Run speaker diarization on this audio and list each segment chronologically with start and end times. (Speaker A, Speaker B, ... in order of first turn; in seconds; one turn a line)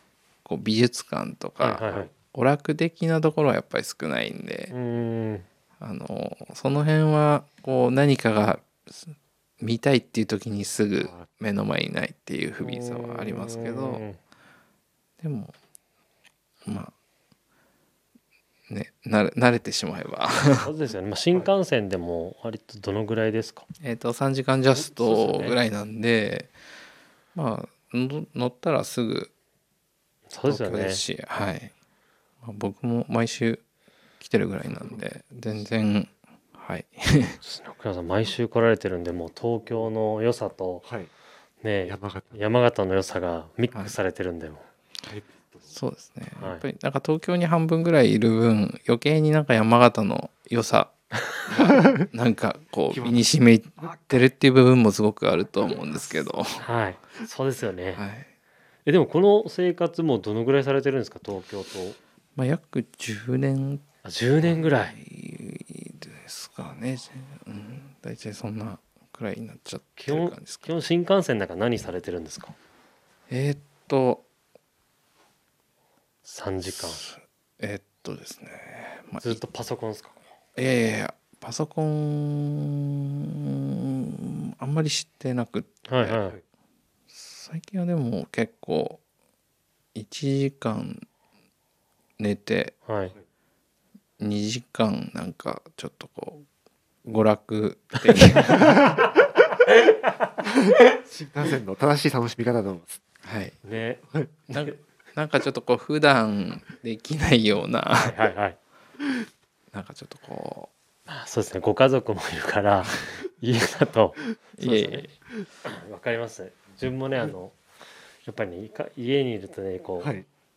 Speaker A: 0.4-4.7
Speaker B: 1.6-2.1
Speaker B: 4.7-5.5
Speaker A: 5.8-14.0
Speaker C: 11.0-11.3
Speaker B: 12.6-14.2
Speaker A: 15.2-15.5
Speaker A: 16.6-16.9
Speaker A: 18.7-20.7
Speaker B: 20.6-23.6
Speaker A: 23.8-26.5
Speaker B: 24.7-25.6
Speaker A: 27.3-29.3
Speaker B: 30.3-31.0
Speaker A: 30.4-31.7
Speaker A: 32.4-33.6
Speaker A: 34.2-37.4
Speaker C: 34.7-35.0
Speaker B: 37.4-40.8
Speaker C: 40.8-41.1
Speaker B: 41.6-44.7
Speaker C: 41.9-42.4
Speaker C: 45.0-45.7
Speaker A: 45.7-56.6
Speaker C: 51.6-52.0
Speaker C: 52.9-53.2
Speaker C: 53.8-54.2
Speaker B: 56.6-58.0
Speaker A: 58.0-58.3
Speaker B: 58.9-62.0
Speaker A: 62.4-63.8
Speaker B: 64.0-65.0
Speaker A: 64.4-70.7
Speaker B: 70.0-72.5
Speaker A: 73.3-74.2
Speaker B: 76.2-77.0
Speaker A: 76.8-79.4
Speaker B: 79.2-80.2
Speaker A: 80.5-86.2
Speaker B: 85.8-86.4
Speaker A: 87.1-89.0
Speaker A: 89.9-91.0
Speaker A: 92.2-92.8
Speaker B: 92.8-93.1
Speaker A: 94.2-96.4
Speaker A: 97.0-98.9
Speaker C: 98.5-99.0
Speaker C: 100.6-103.0
Speaker A: 103.2-103.6
Speaker B: 103.6-104.7
Speaker C: 104.1-104.5
Speaker A: 104.5-108.2
Speaker B: 107.9-108.6
Speaker A: 109.7-110.7
Speaker B: 111.1-115.1
Speaker A: 114.6-115.1
Speaker B: 115.6-117.6
Speaker B: 118.2-120.1
Speaker C: 120.0-120.3